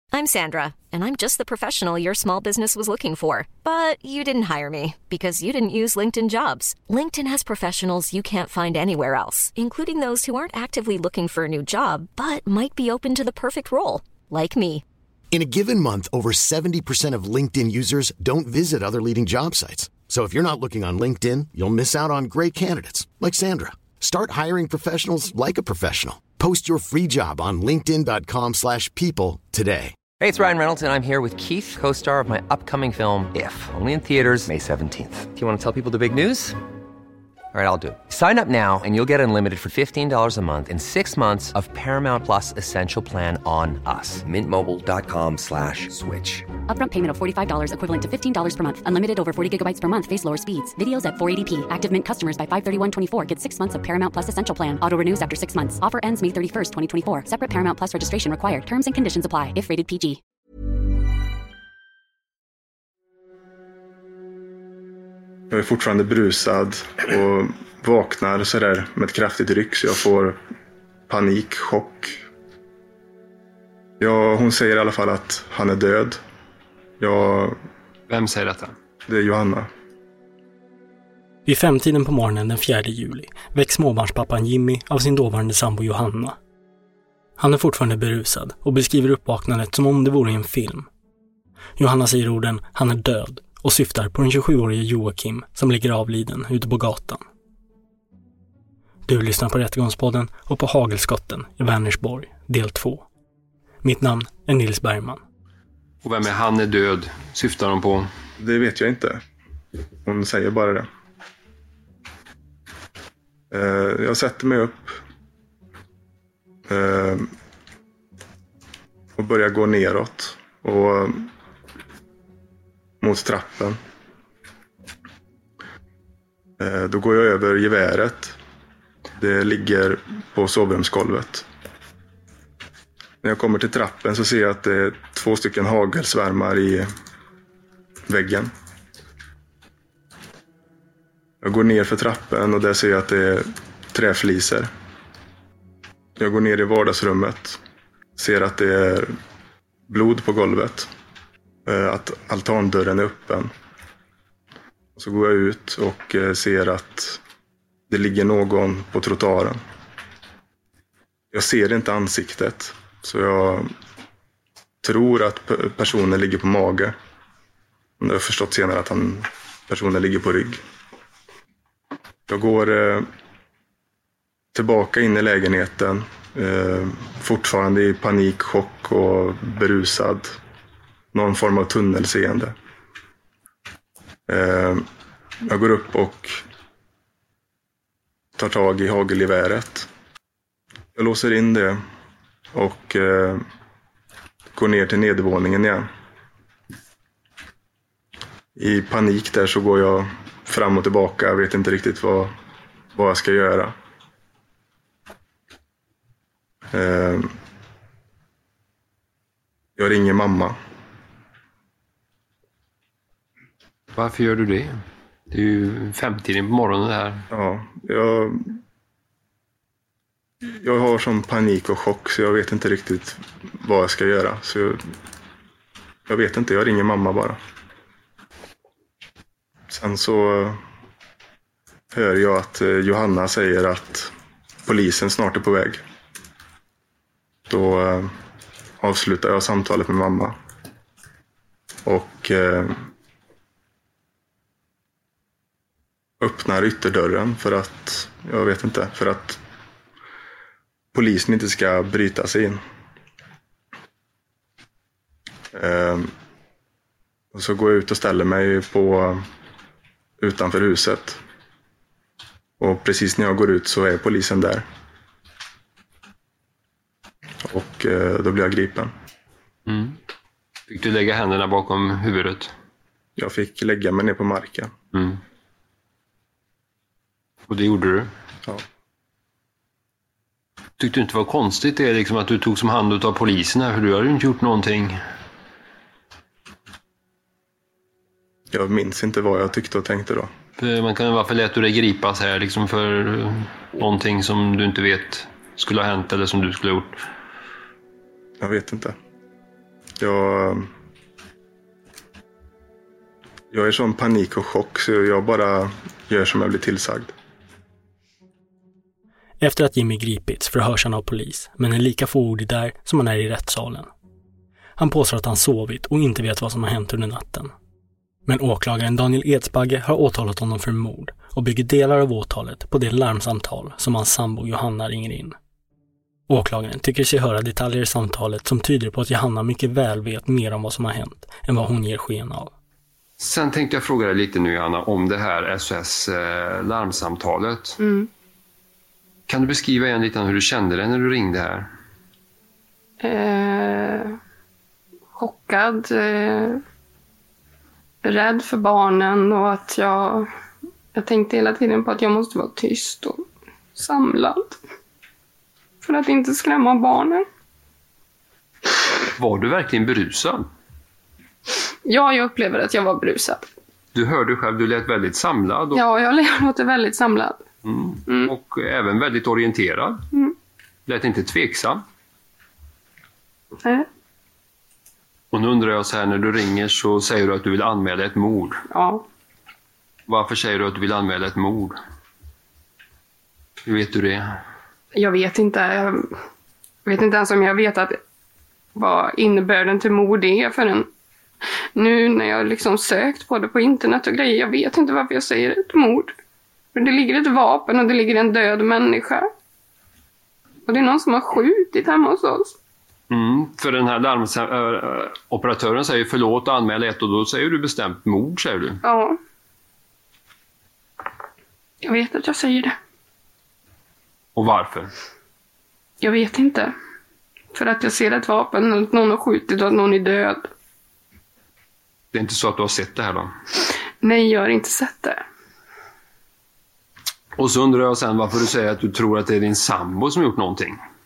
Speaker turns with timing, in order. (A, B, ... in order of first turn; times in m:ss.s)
0:00.1-0:14.8 A
0:15.3-0:29.9 B
0:30.2-0:36.6 C
0:37.5-0:46.5 C
0:46.7-1:00.2 D
1:05.5-1:10.4 E
1:11.1-1:12.2 E
1:14.0-1:16.2 E
1:17.0-1:17.6 E
1:18.1-1:18.7 F
1:19.1-1:19.7 E
1:21.4-1:26.4 G
1:27.4-1:30.9 G
1:31.8-1:37.2 G
1:39.1-1:43.0 G
1:43.8-1:45.2 G
1:46.0-1:48.1 F
1:48.4-1:49.2 E
1:50.0-1:50.9 E
1:53.5-1:55.0 E
1:56.7-1:57.3 E
1:59.2-2:01.3 E
2:03.0-2:03.8 E
2:06.6-2:08.4 E
2:09.2-2:11.5 E
2:13.2-2:16.9 E
2:18.1-2:18.5 E
2:21.4-2:24.7 E
2:26.2-2:27.6 E
2:28.2-2:29.2 E
2:29.9-2:30.9 E
2:31.6-2:33.5 E
2:35.0-2:37.2 E
2:37.9-2:39.6 E
2:41.3-2:43.7 E
2:44.8-2:47.0 E
2:48.0-2:50.6 E
2:52.3-2:53.1 E
2:54.5-3:00.4 E
3:01.1-3:02.5 E
3:04.3-3:04.9 E
3:05.4-3:06.4 E
3:08.4-3:09.9 E
3:11.0-3:11.8 E
3:12.5-3:13.4 E
3:14.5-3:15.9 E
3:18.6-3:22.3 E
3:22.9-3:23.7 E
3:26.7-3:27.3 E
3:29.8-3:30.6 E
3:33.9-3:37.3 F
3:37.3-3:38.6 E
3:40.5-3:44.8 E
3:46.1-3:47.4 E
3:49.7-3:50.6 E
3:51.9-3:54.1 E
3:54.6-3:55.8 E
3:57.5-3:58.1 E
3:58.8-4:00.3 E
4:01.8-4:02.8 E
4:06.2-4:09.4 E
4:10.9-4:12.6 E
4:15.5-4:16.1 E
4:17.3-4:19.3 E
4:20.2-4:21.2 E
4:22.6-4:24.6 E
4:27.4-4:28.9 E
4:29.6-4:30.0 F
4:30.7-4:32.5 F
4:33.2-4:34.7 E
4:34.9-4:35.2 F
4:37.5-4:38.1 F
4:40.8-4:45.0 F
4:48.5-4:50.3 E
4:50.6-4:57.0 F
4:58.4-4:59.0 E
5:00.0-5:00.7 E
5:03.5-5:07.1 E
5:09.4-5:13.9 G
5:14.8-5:17.5 G
5:18.2-5:25.3 G
5:26.3-5:32.5 G
5:33.2-5:37.8 F
5:37.8-5:38.1 H
5:39.3-5:41.7 F
5:43.0-5:44.2 H
5:45.1-5:46.6 H
5:48.0-5:50.3 H
5:50.9-5:54.6 H
5:55.8-5:57.2 H
5:59.2-6:00.5 F
6:01.8-6:03.5 H
6:03.9-6:05.8 F
6:05.7-6:07.4 H
6:07.6-6:10.0 F
6:08.1-6:08.3 H
6:10.9-6:11.8 F
6:15.3-6:18.6 F
6:18.7-6:19.0 H
6:20.1-6:21.8 F
6:23.6-6:24.4 F
6:25.0-6:26.1 H
6:26.8-6:28.0 H
6:28.7-6:30.9 H
6:31.8-6:36.2 H
6:36.7-6:39.3 H
6:40.7-6:42.5 H
6:43.1-6:48.8 F
6:48.8-6:49.2 H
6:51.8-6:52.7 H
6:54.4-6:54.9 F
6:56.0-6:56.7 H
6:57.5-7:00.4 H
7:02.1-7:03.3 F
7:04.0-7:05.2 H
7:07.4-7:10.8 F